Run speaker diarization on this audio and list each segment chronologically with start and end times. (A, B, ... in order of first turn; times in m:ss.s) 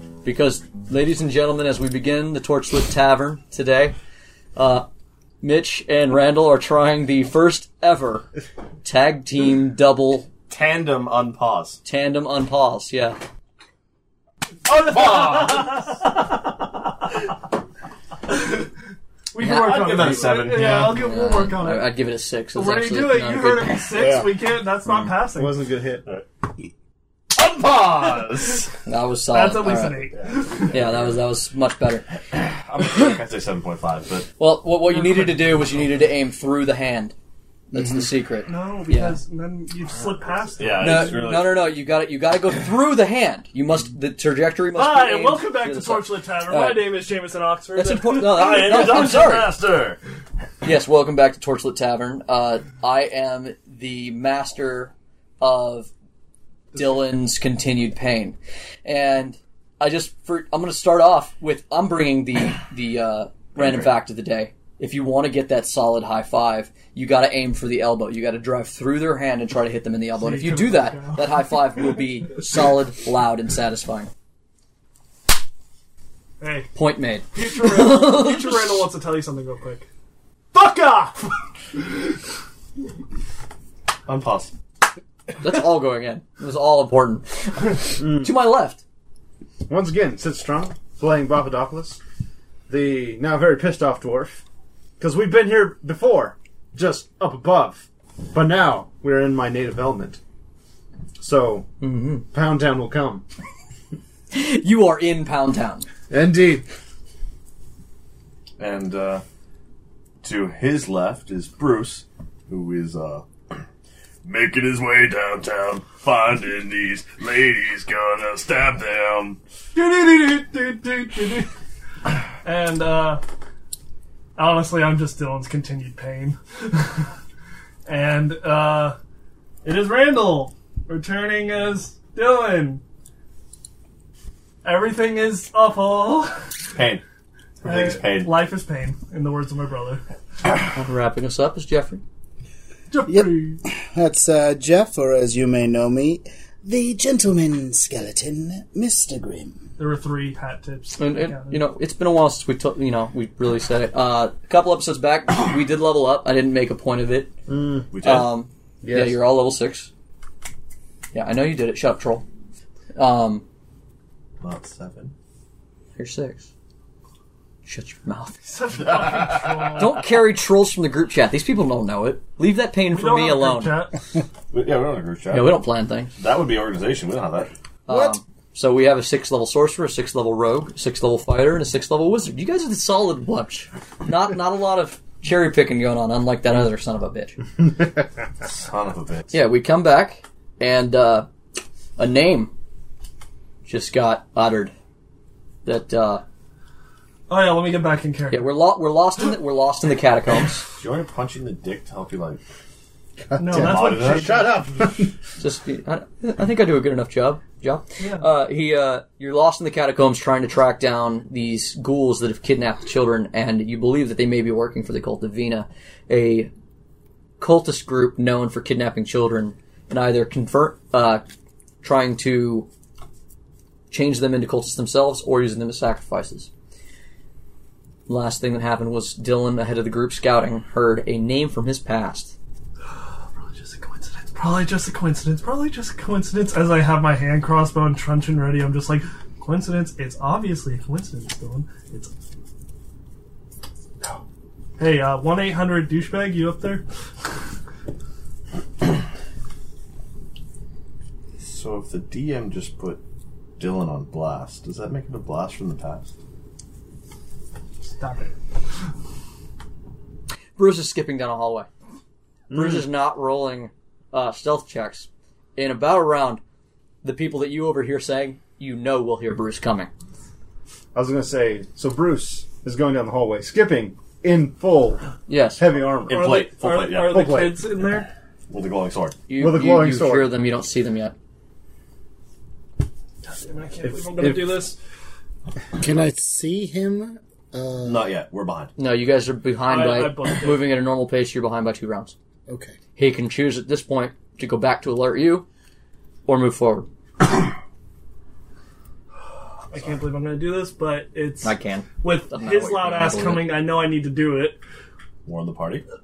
0:00.2-0:04.0 A
0:04.6-0:04.8 A
0:05.4-0:08.3 A
0:08.8-0:10.3 A
0:10.5-0:11.8 B
0:11.8-0:13.2 A
0:14.6-0:16.0 B
0:15.1-0:16.0 C
0:18.3-0:18.6 C
0:19.3-0:21.9 C
0:19.4-0:24.1 A
0:19.4-0:21.1 B
0:22.5-0:25.6 C
0:24.0-0:24.3 B
0:24.9-0:25.1 A
0:25.3-0:26.0 D
0:27.3-0:28.7 B
0:28.8-0:30.1 A
0:29.3-0:30.7 C
0:30.2-0:31.2 B
0:30.7-0:32.1 A
0:32.5-0:34.3 B
0:34.4-0:37.1 A
0:35.1-0:35.4 C
0:37.7-0:39.2 A
0:38.5-0:41.2 C
0:40.6-0:41.7 B
0:40.8-0:47.0 A
0:44.7-0:49.6 C
0:47.7-0:49.6 A
0:48.3-0:50.0 B
0:50.6-0:55.9 A
0:56.7-1:14.1 A
1:03.6-1:03.9 B
1:10.2-1:11.3 C
1:16.4-1:16.7 C
1:16.7-1:18.8 A
1:17.3-1:19.9 C
1:20.5-1:21.3 C
1:24.1-1:24.5 B
1:25.4-1:28.8 A
1:28.0-1:28.3 D
1:29.7-1:32.0 D
1:32.7-1:34.4 D
1:35.0-1:40.2 D
1:41.2-1:41.7 D
1:41.8-1:42.2 A
1:42.3-1:43.2 D
1:44.3-1:45.9 A
1:46.1-1:46.6 D
1:48.6-1:49.2 B
1:50.2-1:53.2 B
1:54.2-1:59.4 B
1:59.7-2:01.5 C
2:02.4-2:03.2 C
2:04.4-2:07.1 C
2:07.8-2:09.0 C
2:09.6-2:12.8 C
2:14.6-2:16.5 C
2:16.7-2:17.0 B
2:17.6-2:18.3 B
2:17.6-2:20.0 C
2:20.7-2:22.0 A
2:22.9-2:23.6 C
2:23.1-2:29.6 E
2:29.8-2:31.6 C
2:31.0-2:37.3 A
2:37.5-2:37.9 D
2:37.9-2:38.3 B
2:38.0-2:39.9 A
2:38.8-2:39.2 D
2:41.1-2:42.2 A
2:43.0-2:43.4 A
2:44.4-2:45.1 B
2:46.0-2:46.5 A
2:47.6-2:48.4 A
2:48.4-2:50.0 C
2:48.8-2:49.8 B
2:49.8-2:53.8 A
2:52.9-2:54.0 C
2:54.5-2:55.6 B
2:55.3-2:56.1 A
2:56.2-2:57.5 B
2:57.9-3:07.4 A
2:57.9-2:58.2 E
3:08.4-3:09.3 B
3:09.3-3:11.3 A
3:12.0-3:12.5 A
3:13.6-3:14.7 A
3:15.6-3:16.2 A
3:17.3-3:18.5 C
3:18.3-3:20.6 A
3:20.8-3:22.4 B
3:23.3-3:25.1 D
3:23.4-3:24.6 C
3:23.5-3:24.5 B
3:25.4-3:36.5 A
3:28.0-3:28.2 C
3:37.4-3:41.2 A
3:41.8-3:42.7 A
3:43.9-3:46.5 A
3:48.1-3:52.3 A
3:53.4-4:02.1 C
4:04.8-4:06.8 C
4:11.4-4:13.0 B
4:13.6-4:16.1 B
4:17.9-4:18.3 C
4:20.6-4:21.7 A
4:22.5-4:22.8 D
4:22.5-4:26.4 A
4:27.0-4:29.9 A
4:30.9-4:36.3 D
4:35.3-4:35.6 A
4:36.1-4:37.2 B
4:36.1-4:38.1 C
4:37.1-4:37.6 D
4:38.5-4:39.2 B
4:39.3-4:41.1 A
4:39.3-4:40.4 D
4:43.2-4:44.8 C
4:43.8-4:44.6 D
4:45.7-4:48.1 E
4:47.8-4:48.7 B
4:48.8-4:52.1 A
4:49.6-4:50.7 C
4:52.5-4:52.8 E
4:53.0-4:55.4 A
4:56.2-4:56.9 A
4:59.7-5:04.6 C
5:01.4-5:03.5 A
5:05.2-5:05.8 B